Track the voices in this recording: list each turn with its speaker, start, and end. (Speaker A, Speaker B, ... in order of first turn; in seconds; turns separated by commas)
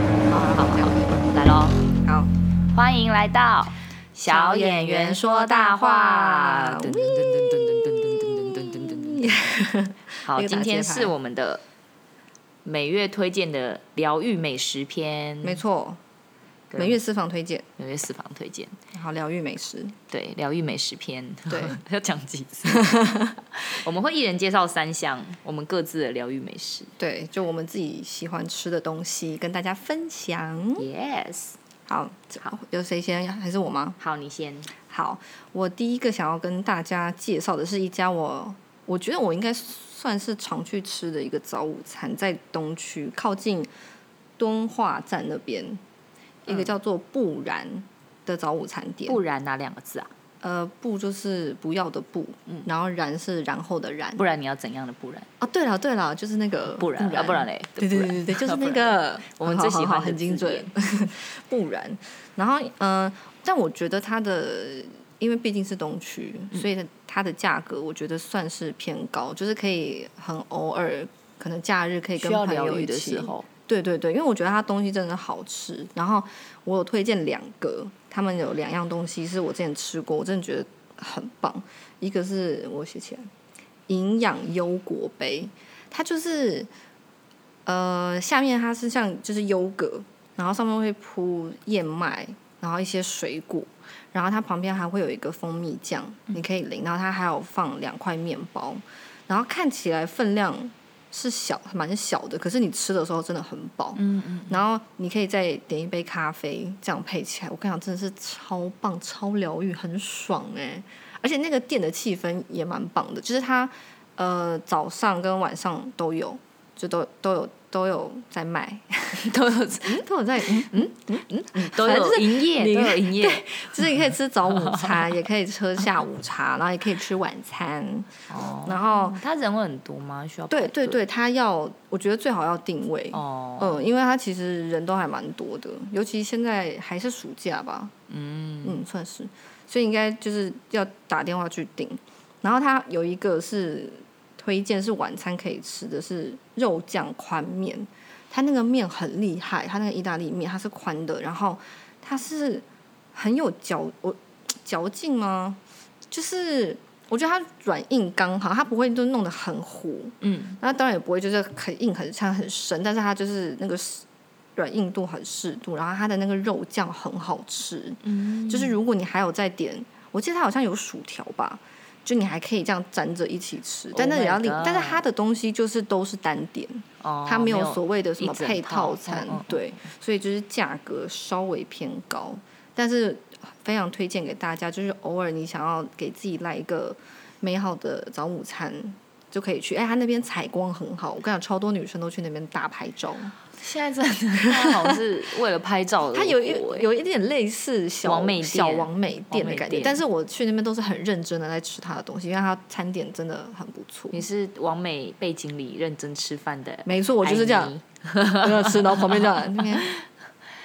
Speaker A: 0.3-1.2, Speaker B: 0.3-1.8, Speaker A: 2.0-2.3, Speaker B: 2.7-9.5, Speaker A: 4.3-11.1, Speaker B: 10.2-11.6, Speaker B: 12.6-15.6, Speaker A: 15.4-16.0, Speaker B: 16.7-17.0, Speaker A: 16.8-17.6, Speaker B: 17.8-18.8, Speaker A: 18.9-19.9, Speaker B: 20.1-23.0, Speaker A: 21.5-21.8, Speaker A: 22.7-23.4, Speaker B: 23.6-26.9, Speaker A: 27.0-30.9, Speaker B: 30.8-31.6, Speaker A: 31.9-34.0, Speaker B: 34.0-34.7, Speaker A: 34.8-43.7, Speaker A: 44.4-45.8, Speaker A: 46.4-49.2, Speaker B: 49.1-50.1, Speaker A: 50.4-54.2, Speaker B: 54.2-55.3, Speaker A: 55.4-83.3, Speaker B: 56.6-60.7, Speaker B: 72.2-73.5, Speaker A: 83.9-86.7, Speaker A: 87.7-119.3, Speaker B: 104.0-104.6, Speaker B: 119.2-123.9, Speaker A: 119.8-129.2, Speaker B: 124.5-125.1, Speaker B: 128.3-131.0, Speaker A: 130.5-137.9, Speaker B: 133.1-133.8, Speaker B: 138.1-138.8, Speaker A: 138.6-155.6, Speaker A: 156.1-164.0, Speaker B: 160.2-160.6, Speaker A: 164.6-193.3, Speaker B: 168.0-168.8, Speaker B: 173.9-175.0, Speaker B: 177.0-179.8, Speaker B: 193.6-196.8, Speaker A: 194.4-195.0, Speaker A: 196.1-204.2, Speaker B: 198.0-200.0, Speaker B: 204.1-210.1, Speaker A: 206.8-207.7, Speaker A: 208.3-209.9